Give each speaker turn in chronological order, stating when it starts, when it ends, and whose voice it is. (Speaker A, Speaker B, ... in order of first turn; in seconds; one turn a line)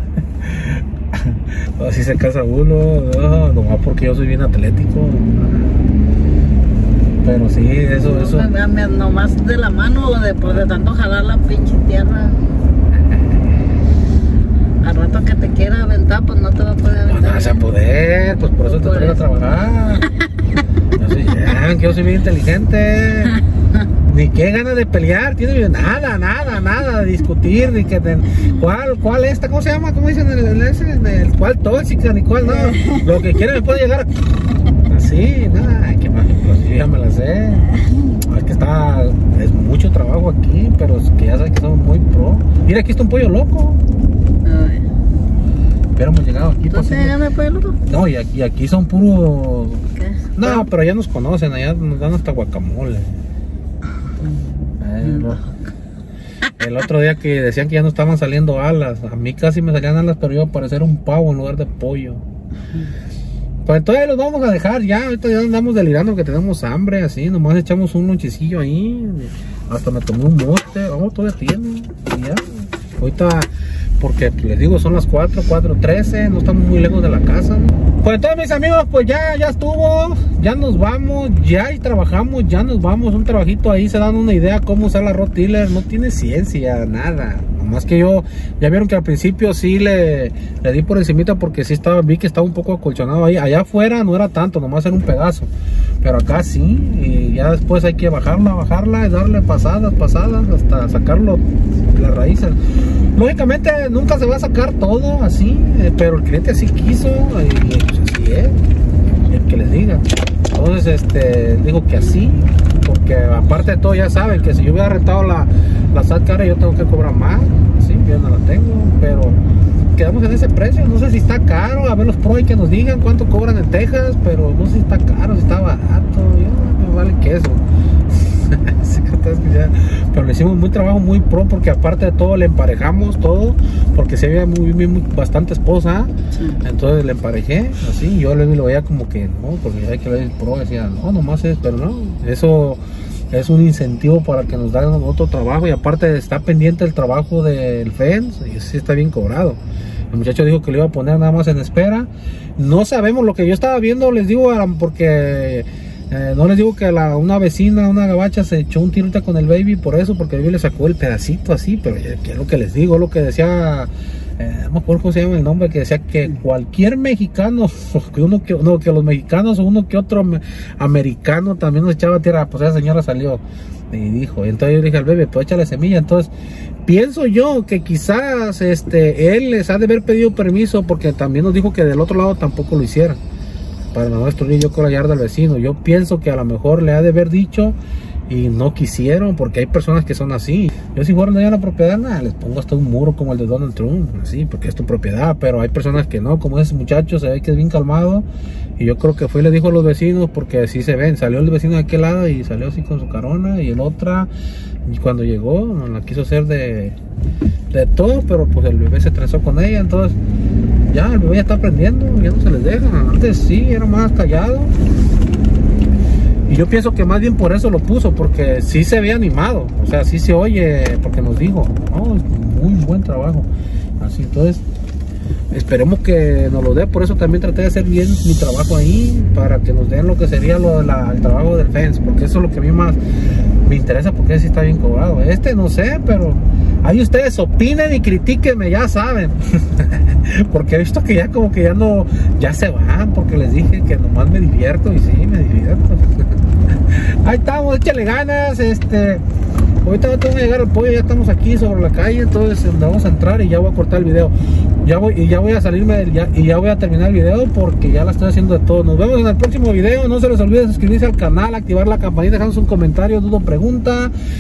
Speaker A: 0.4-5.8
Speaker A: 7.2-8.5
Speaker B: 8.0-12.4
Speaker B: 14.8-17.7
Speaker A: 17.1-20.1
Speaker B: 18.6-19.2
Speaker A: 21.0-23.4
Speaker A: 24.0-34.1
Speaker B: 32.4-33.6
Speaker A: 34.9-37.7
Speaker B: 37.6-38.2
Speaker A: 38.3-43.8
Speaker B: 44.5-44.9
Speaker A: 46.0-47.2
Speaker B: 46.7-47.8
Speaker A: 47.9-53.2
Speaker B: 50.0-50.7
Speaker B: 54.2-55.5
Speaker A: 54.8-55.5
Speaker A: 56.6-62.2
Speaker A: 63.7-95.5
Speaker A: 96.0-108.6
Speaker A: 109.3-119.4
Speaker A: 120.0-149.6
Speaker B: 136.3-136.6
Speaker A: 150.1-176.3
Speaker A: 176.9-183.2
Speaker A: 183.9-187.8
Speaker A: 188.3-198.3
Speaker A: 198.8-204.3
Speaker A: 204.8-207.0
Speaker A: 207.7-210.2
Speaker A: 210.9-214.7
Speaker A: 216.5-223.5
Speaker A: 224.0-224.6
Speaker A: 225.5-233.0
Speaker A: 233.6-246.2
Speaker A: 246.9-249.2
Speaker A: 249.8-264.1